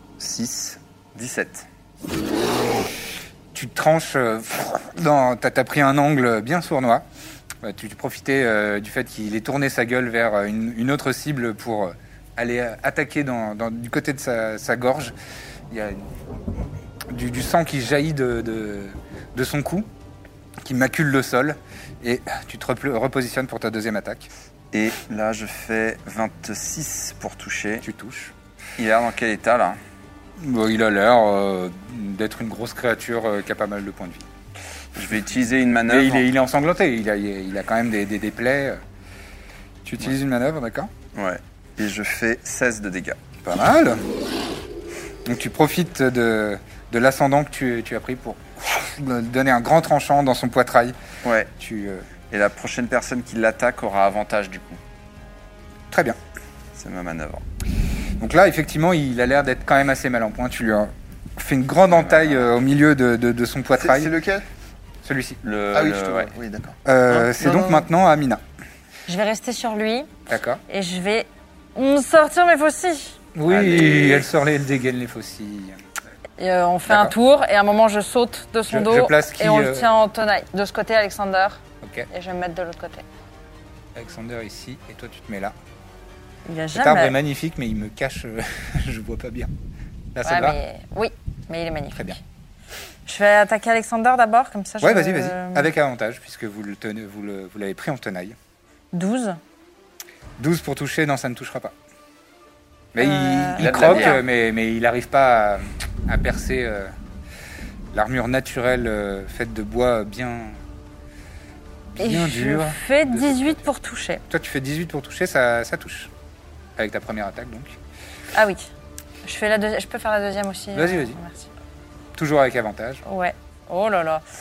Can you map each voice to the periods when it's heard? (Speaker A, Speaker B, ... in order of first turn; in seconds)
Speaker A: 0.2-1.7, 24.7-27.9, 28.8-29.8, 35.0-36.3, 41.1-43.2, 51.2-51.5, 52.3-54.8, 56.8-57.4, 61.9-62.5, 65.4-66.3, 73.5-74.3, 103.6-104.2
Speaker B: 3.5-7.0, 7.6-15.1, 15.7-16.1, 17.1-19.9, 20.6-24.3, 27.8-28.3, 30.4-34.3, 35.9-38.8, 39.9-40.9, 43.5-44.0, 45.2-51.0, 51.6-52.1, 55.9-56.2, 58.2-64.1, 65.0-65.4, 66.8-68.4, 70.3-70.6, 73.3-75.8, 76.9-77.2, 78.7-79.9, 81.8-82.1, 84.0-85.5, 86.7-89.5, 90.1-90.6, 94.8-98.4, 100.4-101.7, 102.9-106.9, 107.9-110.6, 111.9-113.7, 114.3-116.1, 116.8-117.8, 120.7-121.2, 122.2-123.0
Speaker C: 63.7-64.5, 65.7-67.9
Speaker D: 69.1-70.1, 70.7-73.2, 76.4-83.0, 86.5-87.2, 90.2-92.2, 93.1-95.7, 98.9-99.4, 103.0-104.2, 112.0-114.2, 118.3-118.7, 119.2-121.5, 123.0-124.2